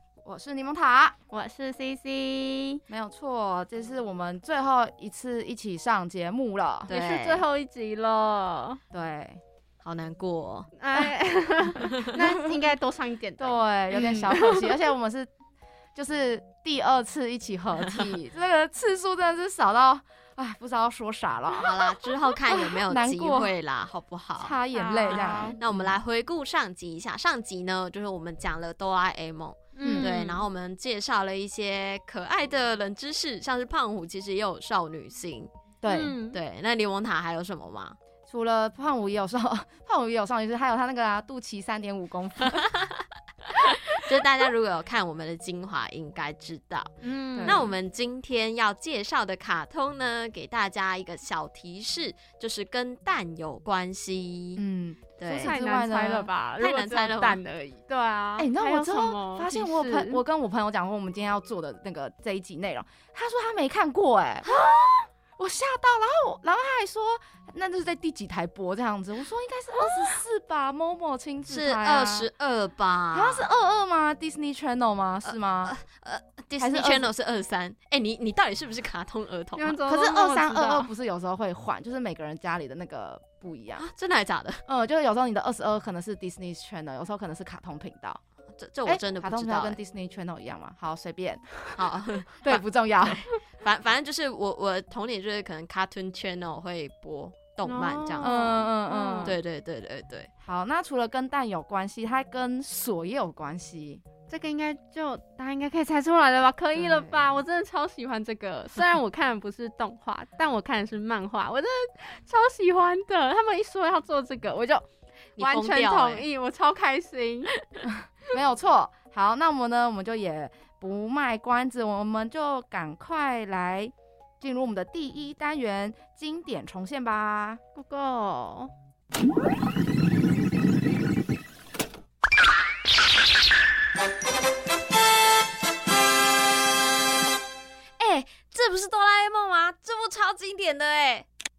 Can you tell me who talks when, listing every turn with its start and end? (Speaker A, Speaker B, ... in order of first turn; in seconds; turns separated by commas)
Speaker A: 0.2-1.2, Speaker B: 1.3-2.8, Speaker A: 2.9-6.9, Speaker B: 6.9-8.8, Speaker C: 6.9-7.4, Speaker A: 8.9-9.4, Speaker C: 9.8-10.7, Speaker B: 10.8-14.8, Speaker A: 13.4-15.3, Speaker A: 15.9-21.9, Speaker C: 21.6-24.5, Speaker A: 22.5-23.5, Speaker A: 24.4-25.9, Speaker B: 24.7-25.6, Speaker C: 25.6-35.5, Speaker B: 29.8-30.4, Speaker A: 29.8-30.1, Speaker A: 35.8-36.2, Speaker B: 35.9-36.4, Speaker C: 36.3-38.0, Speaker A: 38.3-42.6, Speaker C: 42.6-43.0, Speaker C: 43.9-46.9, Speaker B: 47.0-47.7, Speaker A: 47.4-47.7, Speaker C: 47.4-54.6, Speaker A: 54.6-56.3, Speaker C: 55.2-55.5, Speaker B: 55.5-60.2, Speaker C: 56.6-57.4, Speaker A: 58.4-64.6, Speaker A: 65.4-72.3, Speaker C: 71.5-73.4, Speaker A: 73.1-75.8, Speaker C: 75.2-79.8, Speaker A: 76.6-77.1, Speaker B: 79.6-80.9, Speaker A: 79.8-83.8, Speaker C: 83.8-84.6, Speaker A: 84.7-88.2, Speaker C: 88.6-89.8, Speaker A: 88.9-91.5, Speaker C: 91.8-98.3, Speaker A: 92.4-93.2, Speaker B: 97.7-99.4, Speaker A: 98.2-99.4, Speaker C: 99.2-100.3, Speaker A: 100.4-104.0, Speaker B: 104.3-114.8, Speaker A: 106.8-107.2, Speaker C: 115.4-116.2, Speaker B: 115.4-117.5, Speaker A: 117.9-127.6, Speaker B: 127.8-128.7, Speaker C: 138.0-141.3